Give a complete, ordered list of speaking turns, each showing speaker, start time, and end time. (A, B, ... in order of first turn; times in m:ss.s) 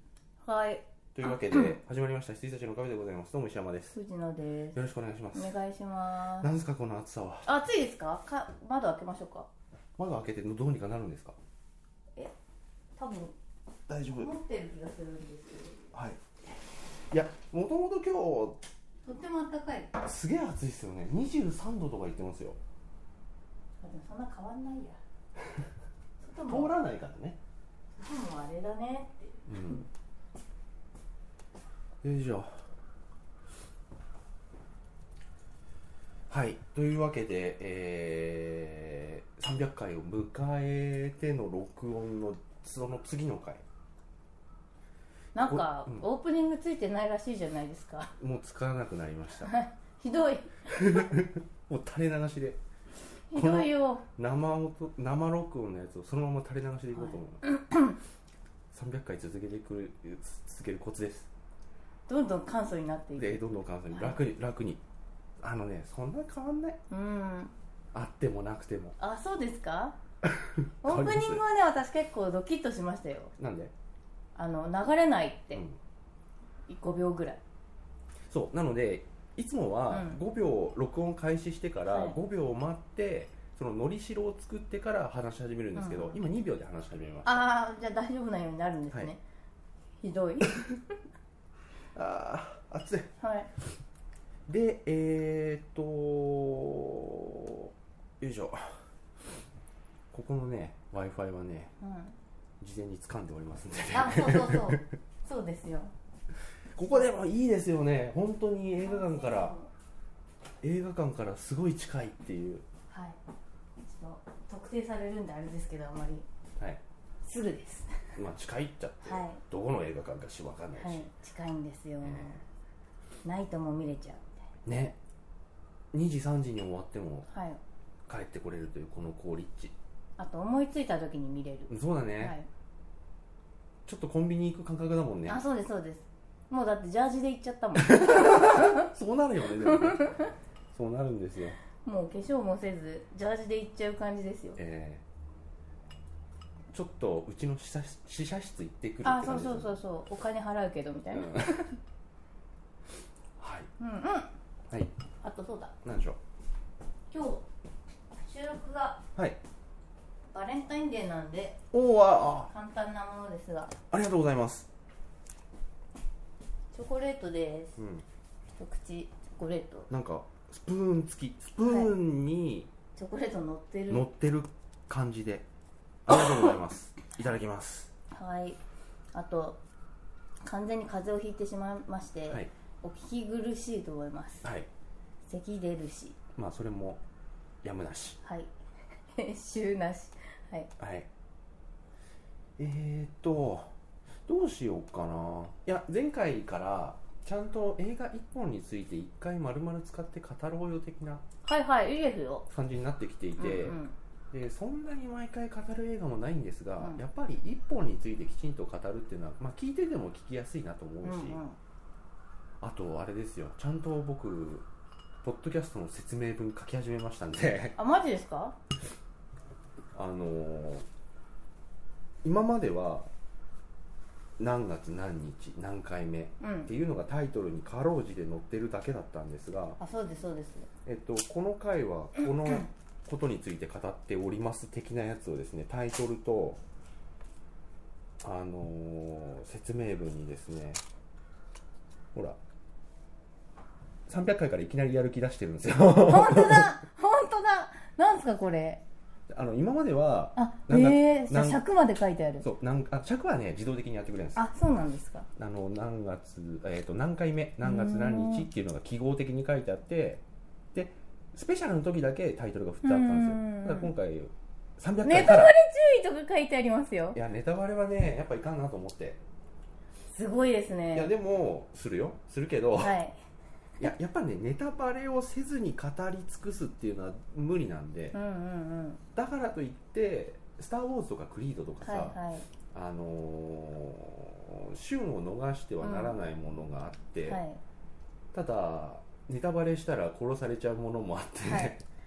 0:00.4-0:01.7 A
0:01.2-0:04.0 B
0:03.9-0:04.8 A
0:04.7-0:05.5 B
0:05.3-0:06.5 A
0:06.4-0:07.5 B
0:07.5-0:09.5 A
0:10.0-0:11.4 B
0:13.0-0:13.4 A
0:13.9-0:14.3 B
0:14.1-0:15.8 A
0:15.9-0:18.6 B
0:19.0-0:19.9 A
0:20.0-0:22.6 B
0:23.8-0:25.0 A
0:26.2-0:26.8 A
0:26.5-0:27.4 B
0:28.0-0:29.8 A
0:29.5-0:29.9 B
0:32.0-0:32.7 B
0:36.3-0:43.6 B
0:45.4-0:48.2 A
0:45.4-0:46.1 B
0:48.2-0:49.5 B
0:49.4-0:51.1 A
0:50.7-0:52.6 B
0:53.3-0:54.0 A
0:53.3-0:57.4 B
0:56.9-0:58.0 A
0:58.7-1:01.3 B
1:02.1-1:04.2 A
1:03.2-1:04.8 B
1:05.4-1:06.8 B
1:06.9-1:07.5 A
1:07.9-1:09.0 B
1:09.0-1:10.0 A
1:10.2-1:11.4 B
1:10.8-1:13.3 A
1:13.4-1:13.7 B
1:14.4-1:15.6 A
1:15.5-1:15.8 B
1:16.7-1:17.4 A
1:18.3-1:27.5 B
1:19.9-1:20.2 A
1:21.9-1:22.2 A
1:25.8-1:26.2 A
1:27.2-1:29.2 A
1:30.0-1:30.7 A
1:32.0-1:33.1 B
1:33.2-1:33.5 A
1:34.5-1:38.8 B
1:40.1-1:41.7 B
1:41.8-1:42.2 A
1:42.6-1:44.9 B
1:43.9-1:45.9 A
1:46.7-1:49.6 B
1:48.8-1:49.7 A
1:50.6-1:52.6 B
1:52.9-1:53.2 A
1:53.8-1:56.3 A
1:57.2-1:58.2 A
1:58.2-2:01.1 B
1:59.0-1:59.4 A
2:00.8-2:02.4 A
2:02.0-2:02.4 B
2:03.2-2:04.4 A
2:04.7-2:05.0 B
2:05.9-2:07.3 B
2:07.3-2:07.6 A
2:08.1-2:09.8 B
2:10.2-2:12.5 A
2:11.7-2:12.4 B
2:13.9-2:15.4 B
2:15.3-2:18.9 A
2:17.8-2:20.1 B
2:19.6-2:20.3 A
2:20.7-2:21.6 B
2:21.8-2:24.6 A
2:24.6-2:25.0 B
2:26.7-2:29.7 B
2:29.0-2:31.8 A
2:31.1-2:31.7 B
2:33.4-2:33.7 B
2:33.8-2:34.3 A
2:35.2-2:35.8 A
2:35.8-2:36.2 B
2:37.1-2:37.4 A
2:38.2-2:39.0 A
2:40.3-2:41.6 A
2:41.7-2:42.5 B
2:42.5-2:43.8 A
2:43.9-2:44.7 B
2:46.7-2:47.8 A
2:47.8-2:48.0 B
2:48.6-2:49.9 A
2:49.9-2:52.7 B
2:51.6-2:51.9 A
2:53.0-2:54.1 A
2:53.9-2:55.4 B
2:56.1-2:57.9 B
2:58.1-2:58.6 A
2:59.1-2:59.6 A
3:00.4-3:04.5 A
3:05.3-3:06.2 A
3:06.4-3:07.0 B
3:07.6-3:08.2 B
3:08.2-3:08.5 A
3:09.1-3:10.7 A
3:10.8-3:11.1 B
3:12.6-3:13.7 B
3:14.3-3:21.2 B
3:21.4-3:22.5 A
3:22.5-3:23.8 B
3:23.4-3:24.0 A
3:24.3-3:31.4 B
3:31.0-3:31.6 A
3:32.6-3:34.7 B
3:35.2-3:37.8 B
3:37.8-3:38.6 A
3:40.0-3:40.9 B
3:42.2-3:43.1 B
3:44.4-3:49.8 B
3:46.4-3:46.7 A
3:49.8-3:50.7 A
3:50.8-3:56.6 B
3:52.2-3:52.6 A
3:58.2-4:00.8 B
4:02.1-4:02.4 B
4:04.1-4:06.7 B
4:06.0-4:08.8 A
4:09.3-4:11.6 B
4:10.4-4:12.5 A
4:12.4-4:14.4 B
4:14.4-4:15.3 A
4:15.4-4:25.5 B
4:17.6-4:18.5 A
4:22.8-4:23.9 A
4:25.0-4:27.2 A
4:27.2-4:29.2 B
4:30.1-4:31.1 A
4:30.9-4:33.0 B
4:32.8-4:33.2 A
4:33.8-4:38.2 B
4:38.1-4:39.0 A
4:39.2-4:42.2 B
4:41.8-4:42.5 A
4:42.7-4:47.4 B
4:45.8-4:46.2 A
4:47.2-4:47.6 A
4:48.3-4:51.8 B
4:51.4-4:51.7 A